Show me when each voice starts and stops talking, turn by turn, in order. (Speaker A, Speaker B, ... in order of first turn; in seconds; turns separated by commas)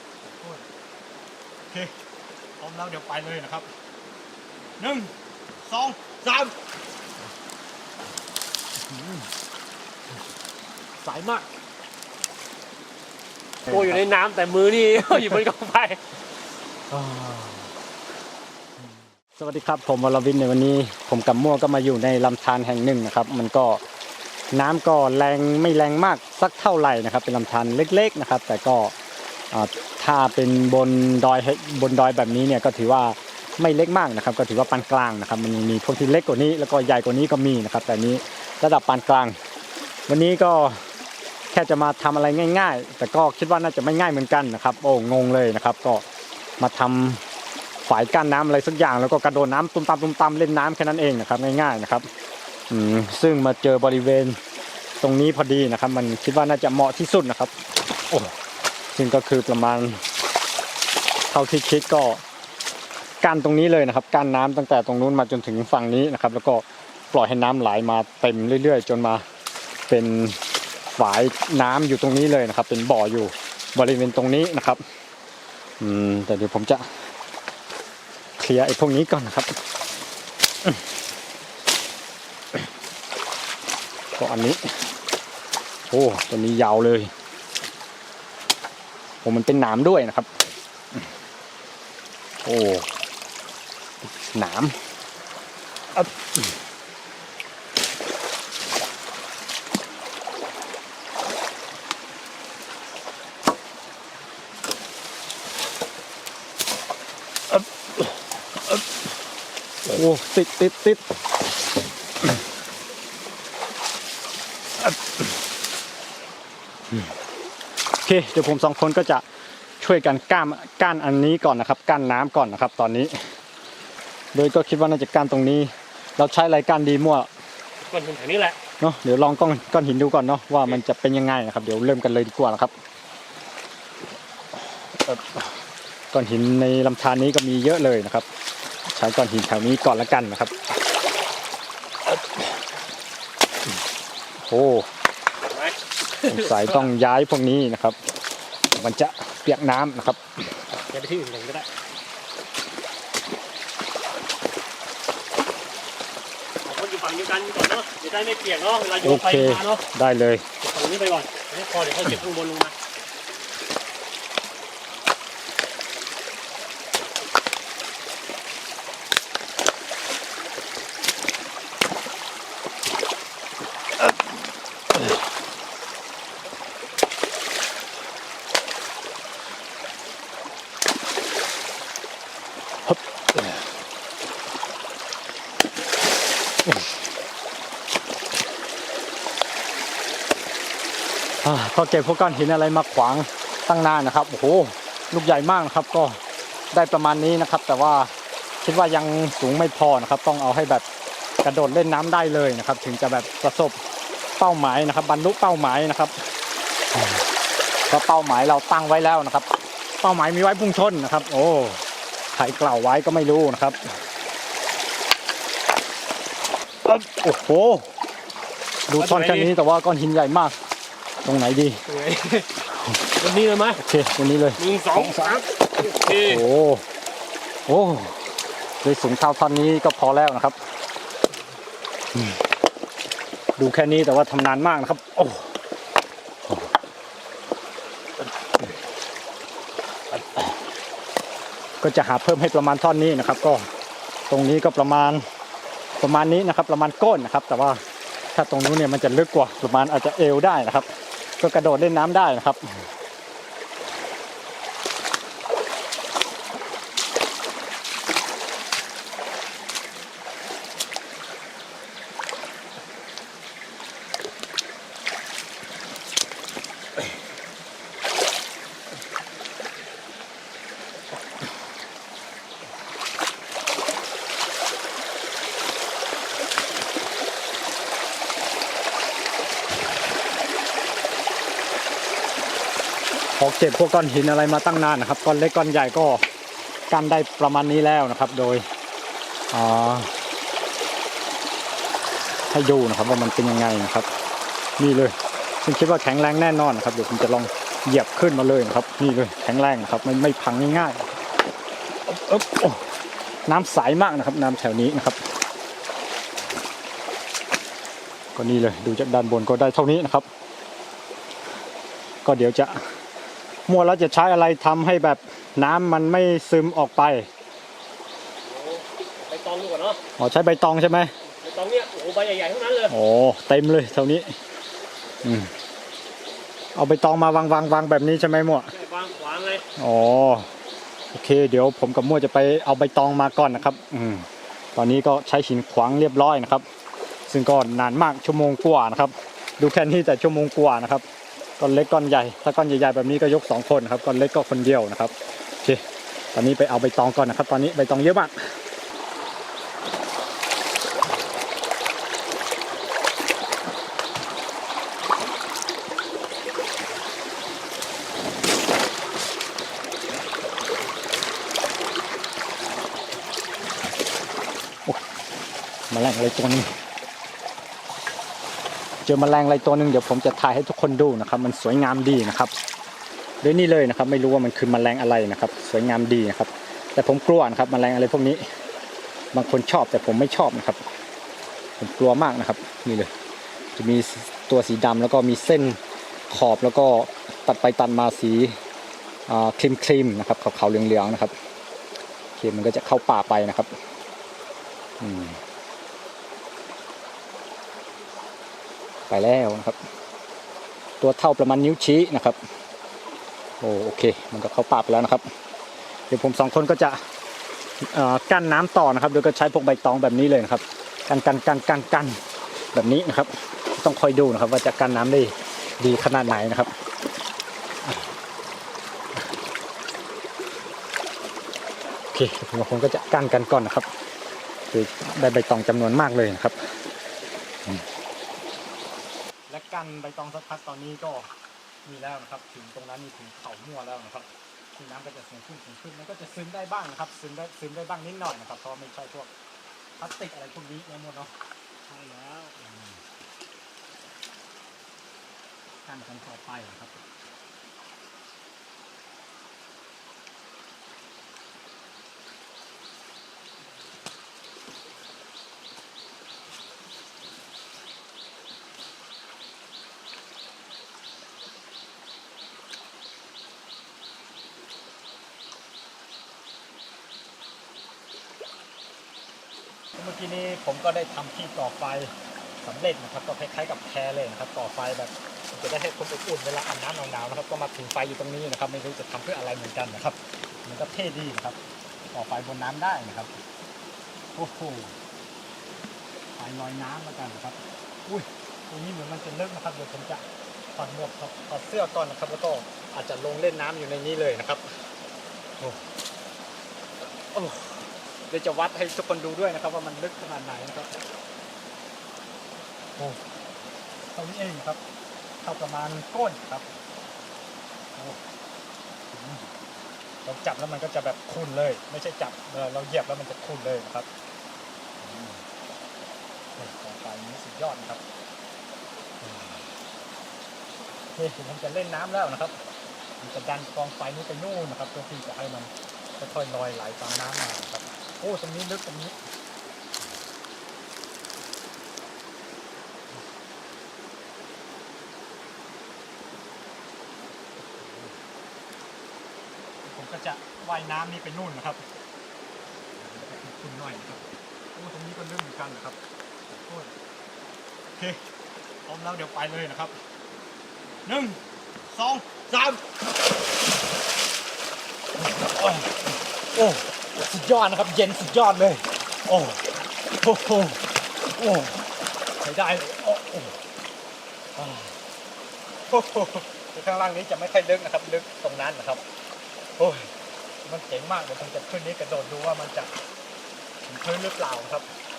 Speaker A: 0.2-0.7, Speaker A: 2.6-3.7, Speaker A: 4.8-6.5, Speaker A: 8.8-9.3, Speaker A: 11.0-11.4, Speaker A: 13.7-14.0, Speaker B: 13.7-16.0, Speaker A: 16.9-17.7, Speaker A: 18.8-23.8, Speaker A: 24.5-28.9, Speaker A: 29.5-39.4, Speaker A: 40.1-40.8, Speaker A: 41.5-46.0, Speaker A: 46.6-47.2, Speaker A: 47.9-52.1, Speaker A: 52.7-54.4, Speaker A: 55.0-57.5, Speaker A: 58.1-58.3, Speaker A: 58.9-60.0, Speaker A: 61.3-62.2, Speaker A: 63.2-69.2, Speaker A: 69.9-74.8, Speaker A: 75.8-77.1, Speaker A: 78.4-79.5, Speaker A: 84.2-84.6, Speaker A: 85.9-87.1, Speaker A: 89.2-90.3, Speaker A: 92.4-92.9, Speaker A: 94.0-94.8, Speaker A: 95.9-96.5, Speaker A: 107.5-108.9, Speaker A: 109.8-111.0, Speaker A: 114.8-115.2, Speaker A: 117.9-119.2, Speaker A: 119.8-123.2, Speaker A: 124.3-127.3, Speaker B: 127.8-128.6, Speaker A: 128.8-132.7, Speaker A: 134.9-135.6, Speaker A: 136.1-138.3, Speaker A: 138.9-140.6, Speaker A: 144.4-144.9, Speaker B: 145.5-146.9, Speaker A: 146.3-148.0, Speaker A: 148.7-150.5, Speaker B: 150.7-151.7, Speaker B: 156.6-159.8, Speaker A: 159.0-160.4, Speaker B: 160.6-162.7, Speaker A: 182.9-183.6, Speaker A: 191.4-196.2, Speaker A: 196.7-198.1, Speaker A: 198.6-200.8, Speaker A: 201.4-203.8, Speaker A: 204.4-206.2, Speaker A: 206.9-207.2, Speaker A: 207.9-209.5, Speaker A: 210.0-211.8, Speaker A: 212.3-213.8, Speaker A: 216.8-217.9, Speaker A: 218.9-220.6, Speaker B: 219.0-219.5, Speaker A: 221.2-221.8, Speaker B: 221.9-222.5, Speaker B: 223.2-223.8, Speaker A: 223.8-226.8, Speaker B: 224.6-226.4, Speaker A: 227.7-228.2, Speaker A: 228.8-230.6, Speaker A: 233.6-235.5, Speaker A: 240.1-240.5, Speaker A: 241.8-243.7, Speaker A: 244.3-245.2, Speaker A: 246.0-247.8, Speaker A: 248.3-252.6, Speaker A: 283.4-286.2, Speaker A: 286.9-288.6, Speaker A: 289.5-290.1, Speaker A: 292.5-294.1, Speaker A: 294.8-301.0, Speaker A: 302.1-302.9, Speaker A: 303.4-305.2, Speaker A: 308.4-310.3, Speaker A: 312.2-312.9, Speaker A: 313.7-317.3, Speaker B: 318.4-320.0, Speaker A: 320.2-321.1, Speaker B: 321.2-322.9, Speaker A: 322.9-324.4, Speaker A: 325.2-325.5, Speaker A: 326.7-328.7, Speaker B: 328.7-329.6, Speaker A: 329.8-330.5, Speaker A: 331.1-336.6, Speaker A: 337.3-341.0, Speaker A: 341.6-345.8, Speaker A: 346.3-348.3, Speaker A: 365.9-366.7, Speaker A: 369.0-372.5, Speaker A: 373.4-378.4, Speaker A: 379.3-380.8, Speaker A: 381.8-383.1, Speaker A: 383.7-388.6, Speaker A: 389.3-391.3, Speaker A: 392.4-393.7, Speaker A: 395.0-395.4, Speaker A: 399.1-399.8, Speaker A: 401.0-402.4, Speaker A: 403.6-405.3, Speaker A: 406.1-407.0, Speaker A: 407.9-412.2, Speaker A: 412.7-416.7, Speaker A: 422.1-423.9, Speaker A: 424.7-426.6, Speaker A: 429.5-431.3, Speaker A: 431.8-439.3, Speaker A: 440.0-441.3, Speaker A: 441.9-443.0, Speaker A: 445.9-447.0, Speaker A: 469.9-481.6, Speaker A: 482.1-483.4, Speaker A: 484.3-484.9, Speaker A: 486.4-494.8, Speaker A: 495.6-495.8, Speaker A: 497.3-500.9, Speaker A: 503.0-503.2, Speaker A: 504.1-504.8, Speaker A: 505.4-506.8, Speaker A: 507.9-508.2, Speaker A: 509.1-509.5, Speaker A: 510.2-514.1, Speaker A: 515.0-515.4, Speaker A: 516.6-518.0, Speaker A: 519.2-519.7, Speaker A: 521.1-522.6, Speaker A: 523.2-529.2, Speaker A: 539.8-541.8, Speaker A: 543.0-546.0, Speaker A: 546.5-546.9, Speaker A: 548.0-548.2, Speaker A: 548.9-550.0, Speaker A: 551.0-552.8, Speaker A: 555.2-561.8, Speaker A: 562.4-563.6, Speaker A: 564.5-565.0, Speaker A: 565.9-569.0, Speaker A: 569.8-570.1, Speaker A: 570.6-572.9, Speaker A: 573.9-574.9